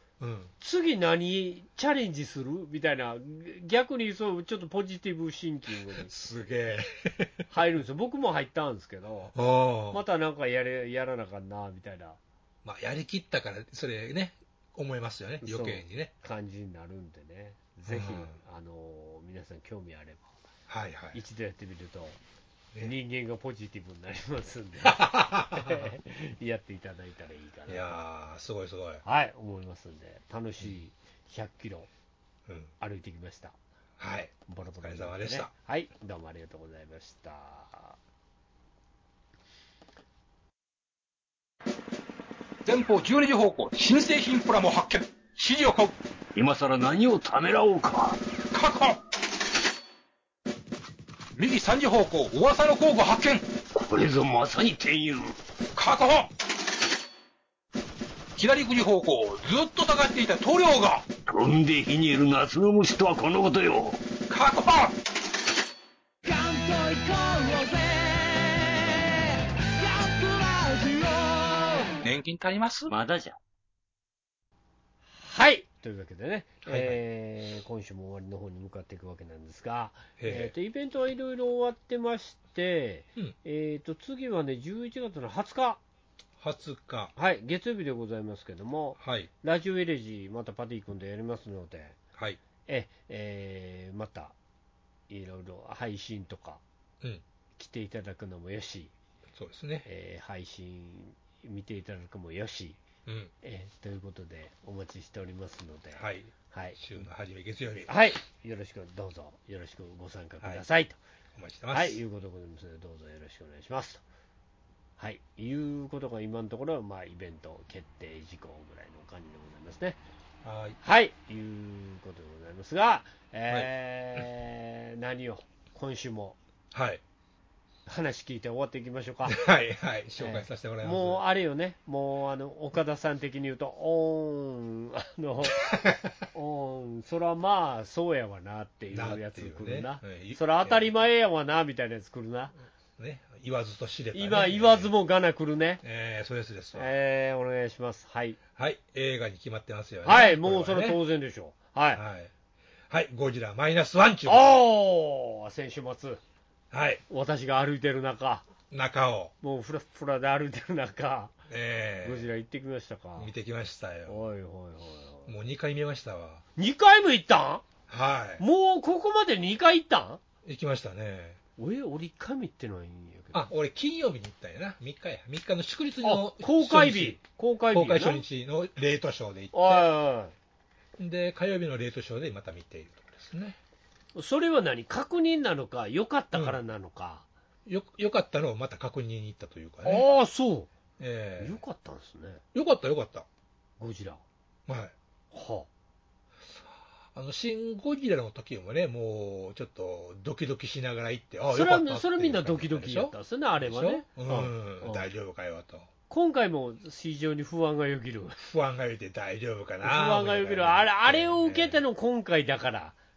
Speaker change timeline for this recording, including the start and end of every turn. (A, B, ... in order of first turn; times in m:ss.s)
0:00.2-0:00.5 A
0:00.6-0:06.1 B
0:06.0-0:07.3 A
0:07.5-0:09.3 B
0:09.3-0:10.0 A
0:09.9-0:12.2 B
0:12.6-0:16.1 A
0:15.4-0:20.3 B
0:17.9-0:18.4 A
0:20.7-0:21.2 A
0:21.1-0:22.2 B
0:22.8-0:28.0 B
0:24.8-0:25.9 A
0:27.7-0:29.0 A
0:29.0-0:31.9 B
0:32.5-0:32.7 A
0:32.8-0:33.6 B
0:34.0-0:35.5 A
0:34.5-0:38.0 B
0:42.6-0:46.0 C
0:46.3-0:48.2 D
0:48.5-0:49.0 C
0:51.4-0:53.5 C
0:53.7-0:55.4 D
0:55.7-0:56.3 C
0:58.4-1:01.1 C
1:01.3-1:04.0 D
1:04.3-1:05.0 C
1:06.2-1:12.0 D
1:12.0-1:12.9 C
1:12.9-1:13.4 D
1:15.2-1:25.8 B
1:16.6-1:17.0 A
1:20.2-1:20.5 A
1:26.4-1:27.1 A
1:27.2-1:32.0 B
1:29.0-1:29.3 A
1:32.6-1:34.3 B
1:35.1-1:36.6 B
1:37.6-1:38.9 B
1:39.3-1:39.8 A
1:39.8-1:42.8 B
1:43.0-1:43.3 A
1:43.4-1:46.8 B
1:46.0-1:47.9 A
1:47.9-1:51.0 B
1:50.4-1:50.6 A
1:51.3-1:52.0 A
1:51.7-1:54.0 B
1:55.0-2:00.0 B
2:00.4-2:00.8 A
2:00.8-2:06.4 B
2:03.5-2:04.2 A
2:06.7-2:07.0 A
2:07.9-2:09.4 B
2:09.2-2:11.2 A
2:10.2-2:22.5 B
2:15.6-2:16.0 A
2:18.9-2:20.9 A
2:23.0-2:24.9 A
2:24.1-2:25.8 B
2:25.8-2:26.9 A
2:26.7-2:28.4 B
2:28.6-2:31.0 A
2:30.0-2:32.0 B
2:31.9-2:32.3 A
2:32.9-2:34.6 A
2:34.2-2:36.2 B
2:36.7-2:37.0 A
2:37.1-2:38.5 B
2:38.7-2:39.3 A
2:39.4-2:41.3 B
2:41.5-2:42.3 A
2:42.0-2:43.3 B
2:43.2-2:44.2 A
2:44.1-2:45.3 B
2:45.2-2:46.4 A
2:46.6-2:47.6 B
2:47.9-2:48.4 A
2:48.4-2:50.2 B
2:50.4-2:51.4 A
2:51.6-2:53.5 B
2:53.3-2:57.2 A
2:56.0-2:58.2 B
2:57.7-2:59.9 A
2:59.5-3:00.3 B
3:01.0-3:03.6 A
3:04.1-3:07.2 B
3:06.3-3:06.6 A
3:07.6-3:10.1 A
3:09.8-3:10.7 B
3:11.0-3:11.6 A
3:11.4-3:12.4 B
3:12.5-3:13.2 A
3:13.8-3:14.2 B
3:14.7-3:14.9 A
3:15.3-3:15.7 B
3:17.1-3:25.9 A
3:21.5-3:25.1 B
3:26.1-3:28.4 B
3:28.4-3:31.8 A
3:29.8-3:33.0 B